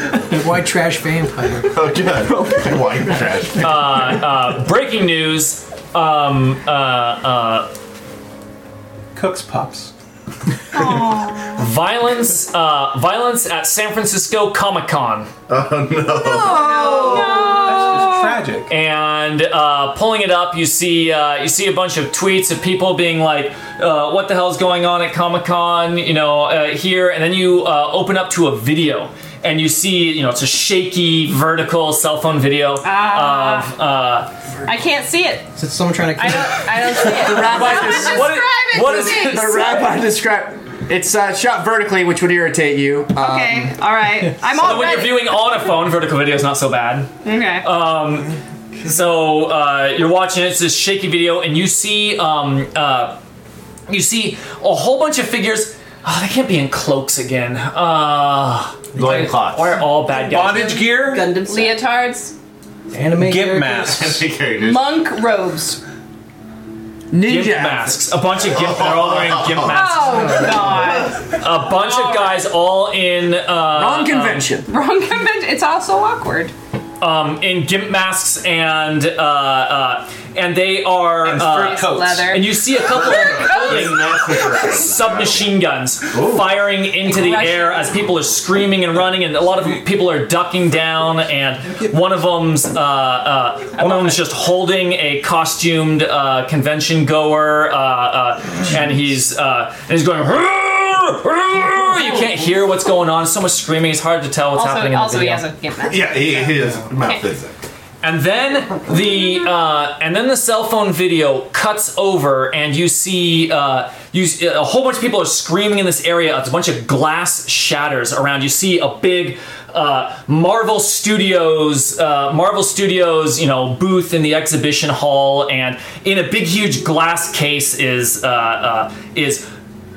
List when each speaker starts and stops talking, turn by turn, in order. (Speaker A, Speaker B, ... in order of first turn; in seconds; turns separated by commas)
Speaker A: 0.2-1.9, Speaker B: 1.7-4.0, Speaker C: 2.2-3.4, Speaker D: 3.6-7.7, Speaker E: 9.1-9.9, Speaker F: 10.8-11.3, Speaker D: 11.6-15.3, Speaker B: 15.5-16.6, Speaker C: 16.3-17.5, Speaker F: 16.3-17.4, Speaker G: 16.4-18.3, Speaker E: 17.4-18.7, Speaker D: 18.7-34.3, Speaker G: 32.8-33.7, Speaker G: 34.6-35.5, Speaker A: 35.5-36.7, Speaker G: 36.1-39.9, Speaker C: 37.0-43.7, Speaker D: 37.3-39.6, Speaker G: 43.2-45.2, Speaker D: 44.5-53.2, Speaker G: 47.2-47.7, Speaker D: 53.9-60.8, Speaker B: 58.9-59.8, Speaker E: 60.1-61.3, Speaker F: 60.8-61.8, Speaker G: 61.4-62.3, Speaker A: 62.9-64.0, Speaker E: 63.1-64.3, Speaker B: 63.8-64.9, Speaker G: 64.5-65.8, Speaker C: 67.1-68.0, Speaker D: 67.2-70.5, Speaker B: 68.4-69.8, Speaker G: 69.7-72.5, Speaker D: 71.3-74.5, Speaker C: 73.7-74.7, Speaker G: 74.7-76.5, Speaker D: 77.0-105.5, Speaker E: 81.2-82.4, Speaker G: 81.5-84.6, Speaker B: 82.8-85.5, Speaker B: 86.1-86.5, Speaker G: 87.0-88.0, Speaker G: 93.8-94.2, Speaker G: 104.5-107.3, Speaker B: 105.8-107.5, Speaker D: 108.0-129.5